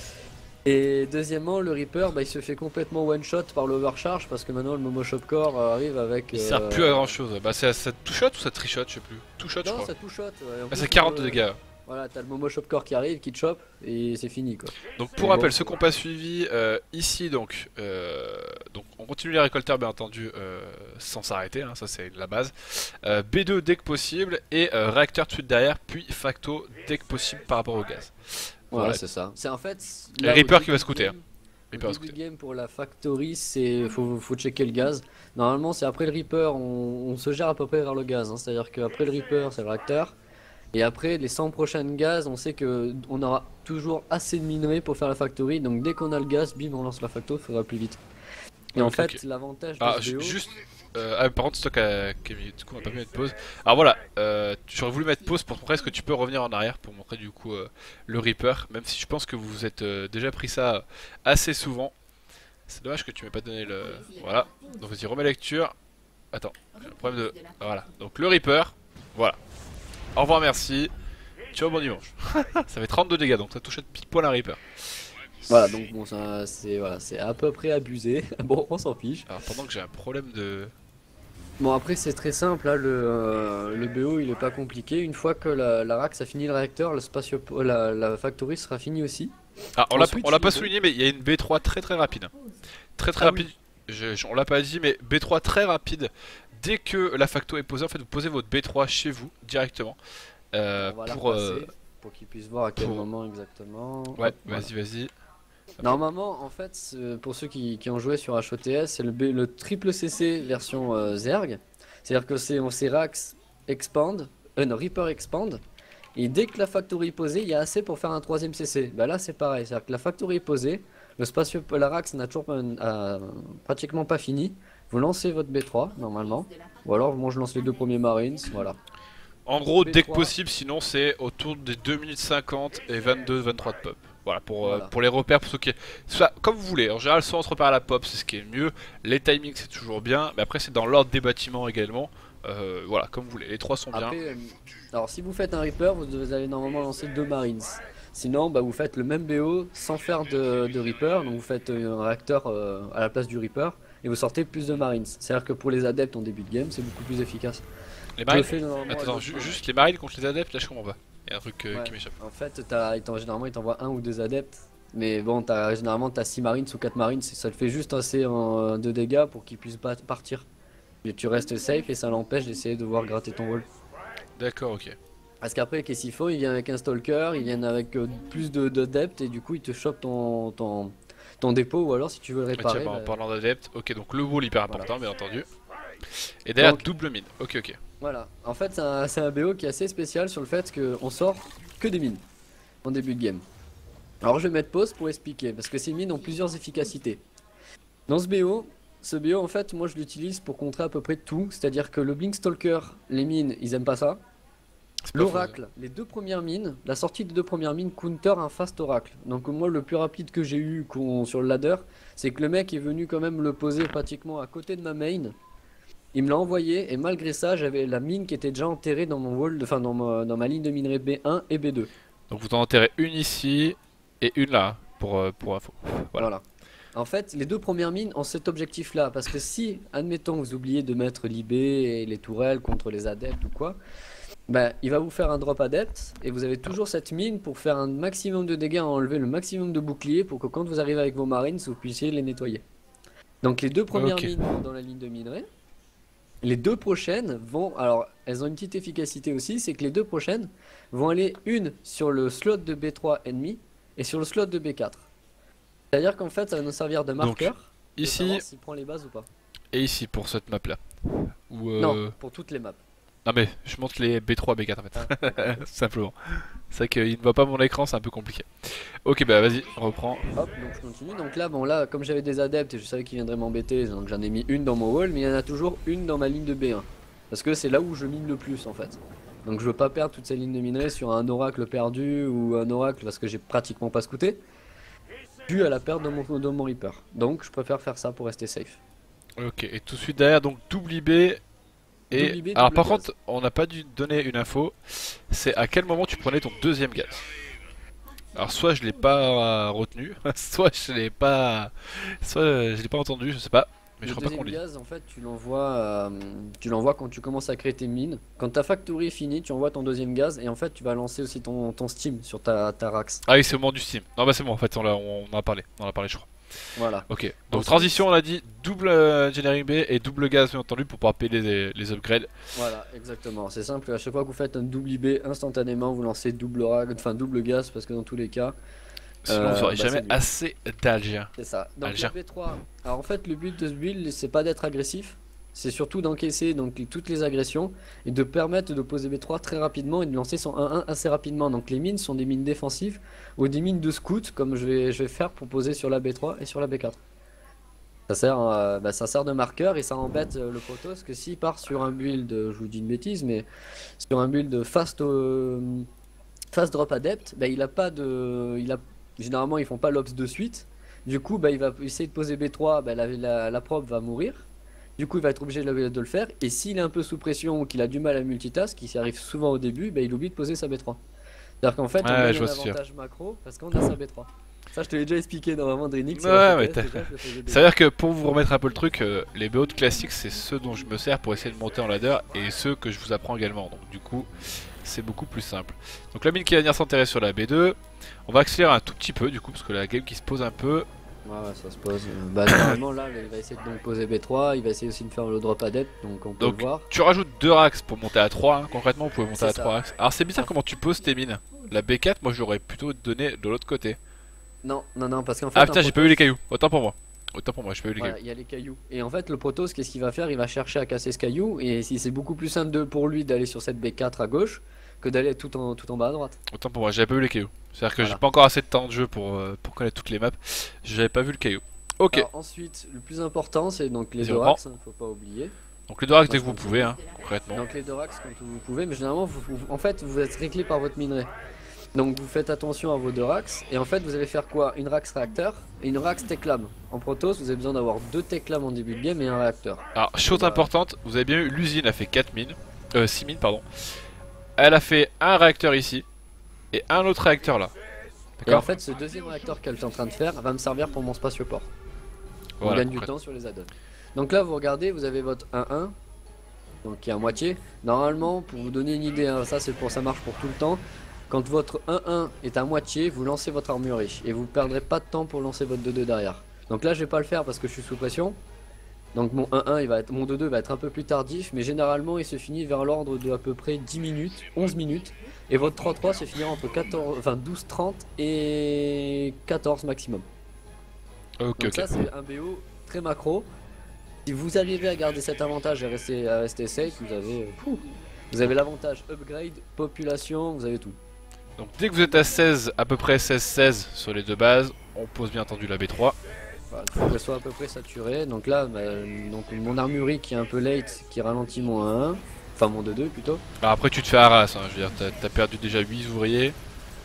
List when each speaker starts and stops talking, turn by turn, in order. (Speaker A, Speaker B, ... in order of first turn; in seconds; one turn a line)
Speaker A: 0.7-7.2
Speaker B: 6.3-9.9
Speaker A: 9.6-15.8
Speaker B: 10.7-11.6
Speaker B: 15.0-29.0
Speaker A: 28.7-40.2
Speaker B: 30.2-31.1
Speaker B: 31.7-32.1
Speaker A: 40.7-48.0
Speaker A: 48.8-50.4
Speaker B: 48.8-49.2
Speaker B: 49.8-61.9
Speaker B: 62.7-65.7
Speaker B: 66.3-69.4
Speaker B: 70.2-70.9
Speaker B: 71.5-74.6
Speaker A: 75.5-79.3
Speaker B: 79.3-80.7
Speaker A: 81.6-89.3
Speaker B: 89.8-92.3
Speaker A: 89.9-90.7
Speaker B: 93.0-100.0
Speaker A: 93.2-93.5
Speaker B: 100.5-101.7
Speaker A: 100.8-104.7
Speaker B: 102.8-103.1
Speaker B: 104.2-105.1
Speaker A: 105.8-115.6
Speaker A: 116.2-128.8
Speaker B: 129.5-144.2
Speaker A: 129.8-130.3
Speaker A: 134.6-134.9
Speaker A: 143.9-157.6
Speaker B: 158.2-162.1
Speaker A: 158.3-159.6
Speaker A: 161.7-170.5
Speaker A: 171.0-173.7
Speaker B: 174.4-175.0
Speaker A: 175.4-183.2
Speaker B: 182.6-185.5
Speaker B: 186.4-187.8
Speaker A: 186.6-186.9
Speaker A: 188.0-192.2
Speaker A: 192.8-193.4
Speaker A: 194.2-197.2
Speaker A: 198.1-204.2
Speaker B: 205.1-205.6
Speaker A: 205.1-215.3
Speaker A: 216.1-221.9
Speaker B: 222.3-226.3
Speaker A: 226.2-233.8
Speaker A: 234.5-242.6
Speaker A: 243.4-245.5
Speaker B: 243.9-244.3
Speaker A: 246.4-255.1
Speaker A: 255.9-259.3
Speaker B: 257.2-258.4
Speaker B: 259.7-262.1
Speaker A: 261.8-262.8
Speaker B: 263.2-270.3
Speaker A: 265.0-265.4
Speaker A: 270.4-284.4
Speaker A: 285.5-288.8
Speaker B: 289.4-291.4
Speaker A: 292.1-293.1
Speaker B: 292.1-297.2
Speaker B: 298.4-304.6
Speaker A: 304.0-313.2
Speaker B: 313.3-316.3
Speaker A: 316.8-318.1
Speaker B: 317.1-322.3
Speaker A: 322.6-328.6
Speaker B: 329.3-331.3
Speaker A: 329.3-330.2
Speaker A: 331.4-347.0
Speaker B: 331.8-332.1
Speaker A: 348.1-353.5
Speaker A: 354.0-355.9
Speaker A: 356.5-364.5
Speaker A: 365.0-371.0
Speaker A: 371.6-377.7
Speaker B: 372.0-372.8
Speaker B: 376.1-390.9
Speaker A: 391.3-396.9
Speaker B: 396.4-404.0
Speaker A: 399.3-399.8
Speaker A: 404.6-406.2
Speaker B: 405.6-408.2
Speaker A: 408.0-416.4
Speaker B: 416.5-422.3
Speaker A: 422.1-425.5
Speaker B: 424.2-424.6
Speaker B: 425.9-427.6
Speaker A: 426.3-427.0
Speaker A: 427.5-431.3
Speaker A: 431.9-440.7
Speaker B: 439.9-443.6
Speaker B: 444.6-446.1
Speaker B: 446.7-447.7
Speaker B: 448.4-448.7
Speaker A: 448.5-451.7
Speaker B: 452.6-453.1
Speaker A: 452.6-455.9
Speaker A: 456.8-468.4
Speaker A: 469.1-480.2
Speaker B: 481.4-481.9
Speaker A: 481.6-483.5
Speaker A: 484.3-491.0
Speaker B: 491.6-496.2
Speaker A: 496.7-503.4
Speaker B: 503.6-506.6